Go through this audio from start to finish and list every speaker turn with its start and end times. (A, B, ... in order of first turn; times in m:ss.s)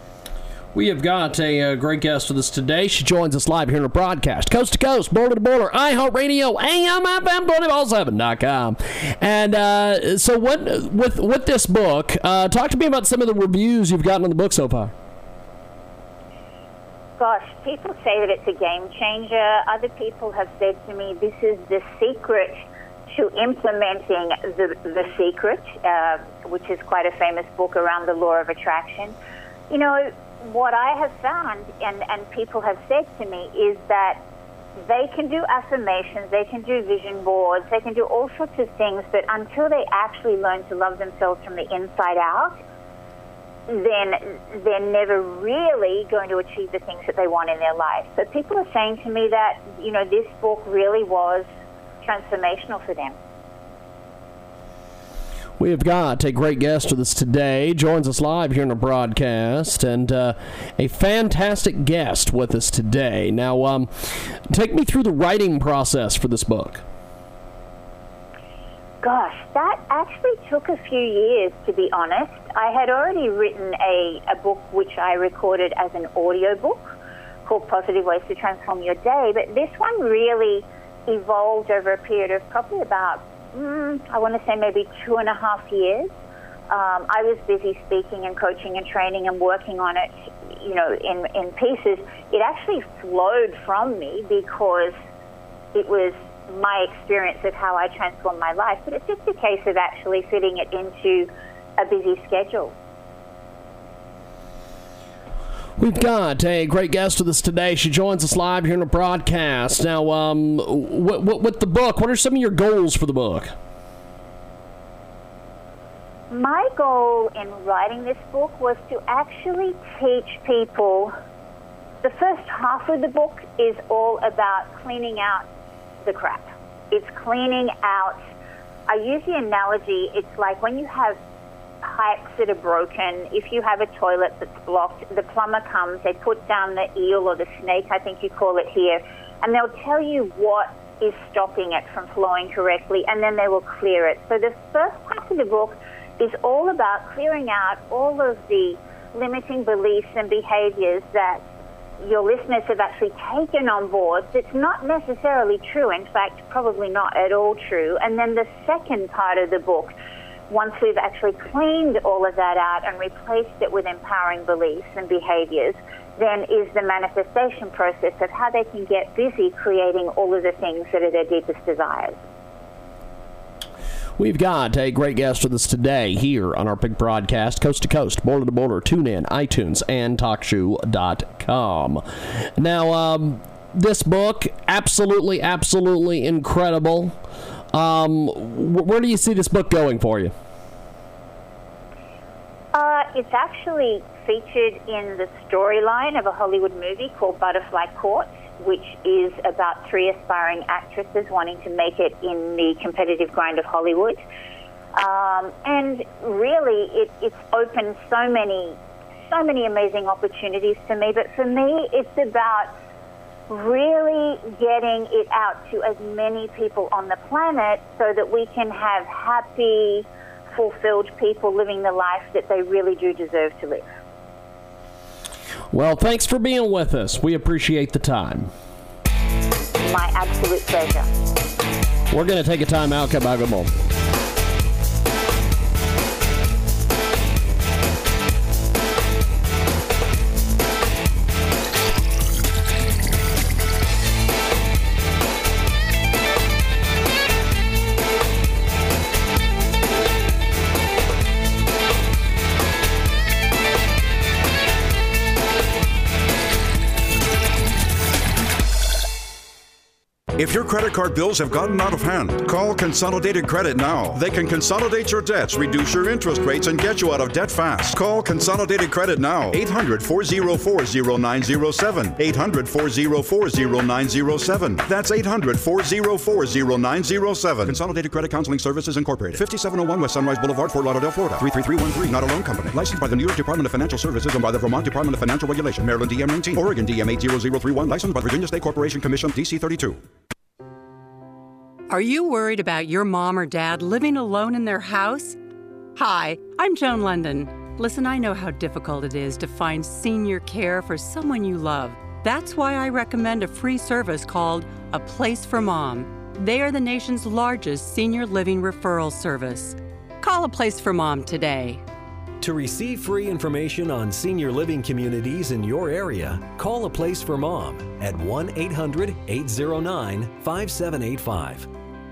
0:00.7-0:14.9 A
0:17.2-0:29.1 B
0:29.7-0:34.2 B
0:34.8-0:42.6 B
0:43.7-0:51.5 B
0:52.0-0:53.2 B
0:55.6-1:06.8 A
1:09.0-1:16.9 B
1:17.4-1:26.1 B
1:26.7-1:35.0 B
1:35.7-1:42.7 B
1:45.8-1:53.5 A
1:56.3-2:01.1 B
2:02.0-2:05.5 B
2:06.0-2:08.2 B
2:08.9-2:11.2 B
2:11.8-2:31.4 B
2:32.0-2:39.9 B
2:40.5-2:52.2 B
2:54.2-3:07.2 A
3:07.7-3:10.3 A
3:12.7-3:24.2 B
3:24.9-3:28.8 B
3:29.3-3:32.7 B
3:33.5-3:43.8 B
3:45.7-3:48.5 A
3:49.8-3:51.1 B
3:52.1-3:53.7 A
4:20.4-4:50.0 C
4:51.9-4:55.4 D
4:56.0-5:11.8 D
5:12.4-5:21.7 E